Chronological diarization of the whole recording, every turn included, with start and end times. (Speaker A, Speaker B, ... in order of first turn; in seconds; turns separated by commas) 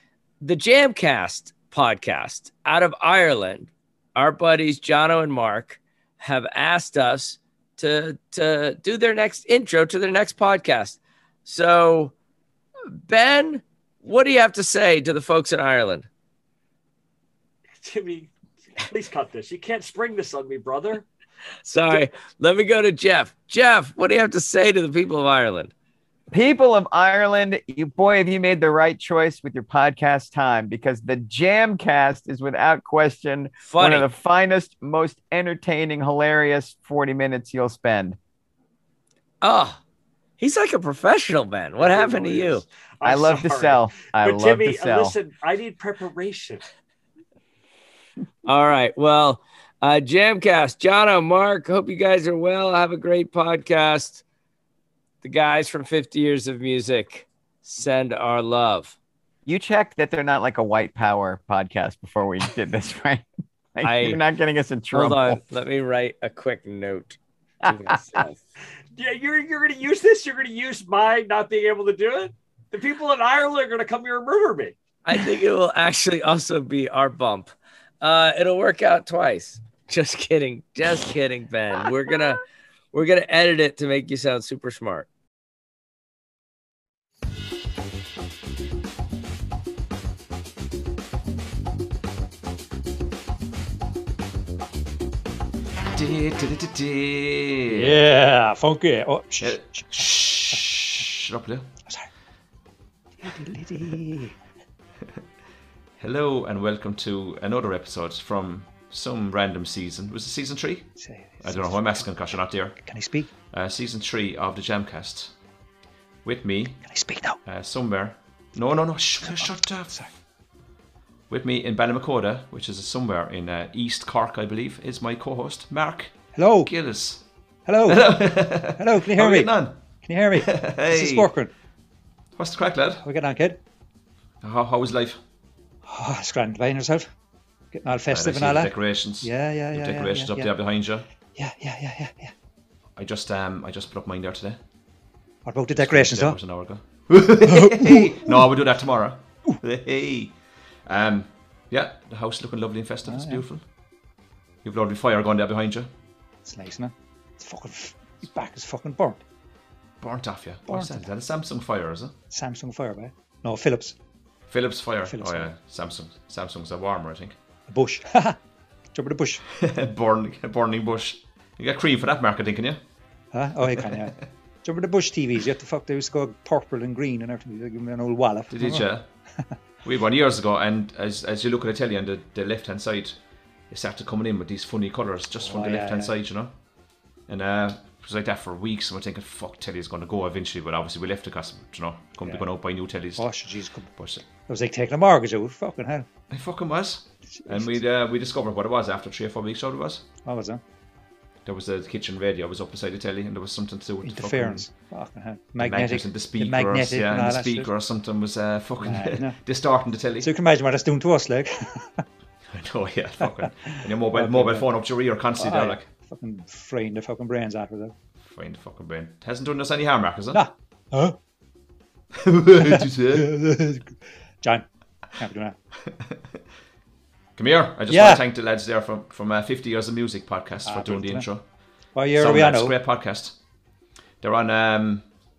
Speaker A: 0.4-12.1, Speaker A: 12.9-16.1, Speaker B: 17.8-18.3, Speaker B: 18.8-21.1, Speaker A: 21.6-25.7, Speaker C: 26.3-38.2, Speaker A: 33.6-34.1, Speaker A: 39.4-39.8, Speaker A: 40.4-42.7, Speaker B: 41.8-46.6, Speaker C: 43.0-45.2, Speaker A: 48.5-54.2, Speaker A: 55.2-59.0, Speaker C: 59.5-65.4, Speaker A: 63.8-64.2, Speaker A: 64.9-68.4, Speaker B: 68.9-74.8, Speaker A: 75.1-82.4, Speaker A: 82.9-85.1, Speaker D: 95.9-98.0, Speaker E: 97.7-100.7, Speaker D: 99.4-101.7, Speaker E: 103.2-104.4, Speaker D: 106.0-112.8, Speaker E: 111.0-112.1, Speaker E: 112.8-113.3, Speaker D: 113.5-115.3, Speaker D: 116.2-116.8, Speaker E: 116.8-117.4, Speaker D: 117.5-120.0, Speaker E: 119.2-120.1, Speaker D: 121.3-127.2, Speaker E: 126.3-126.7, Speaker E: 127.7-131.5, Speaker D: 127.9-129.8, Speaker D: 130.4-131.3, Speaker D: 132.4-133.0, Speaker E: 133.0-133.6, Speaker D: 134.4-135.2, Speaker E: 135.9-137.1, Speaker E: 137.7-140.5, Speaker D: 138.1-141.1, Speaker E: 141.4-142.3, Speaker D: 143.0-144.6, Speaker E: 145.4-146.4, Speaker D: 145.7-153.6, Speaker E: 147.4-148.4, Speaker E: 153.1-153.4, Speaker D: 154.6-155.9, Speaker E: 156.4-159.2, Speaker D: 160.0-162.2, Speaker E: 160.7-161.1, Speaker E: 162.3-164.0, Speaker D: 164.5-167.4, Speaker E: 165.1-165.5, Speaker E: 167.7-168.4, Speaker E: 168.9-169.4, Speaker D: 169.5-172.8, Speaker E: 173.3-178.9, Speaker D: 173.7-174.1, Speaker D: 178.5-179.1, Speaker D: 179.8-183.2, Speaker D: 183.7-186.5, Speaker E: 185.3-186.2, Speaker D: 187.3-193.3, Speaker E: 192.2-192.5, Speaker E: 193.2-196.1, Speaker D: 194.0-194.2, Speaker D: 196.3-200.1, Speaker E: 197.3-197.8, Speaker E: 200.2-200.6, Speaker D: 201.4-204.7, Speaker E: 204.0-207.7, Speaker D: 205.6-210.3, Speaker E: 208.8-209.4, Speaker E: 210.2-212.1, Speaker D: 212.4-215.9, Speaker E: 213.2-214.7, Speaker E: 215.3-217.9, Speaker D: 218.2-220.4, Speaker E: 220.3-221.2, Speaker D: 222.1-223.4, Speaker E: 222.6-225.6, Speaker D: 225.9-226.4, Speaker D: 227.4-231.4, Speaker E: 227.9-228.2, Speaker E: 230.6-231.3, Speaker E: 231.9-232.8, Speaker D: 232.1-233.4, Speaker D: 234.2-235.1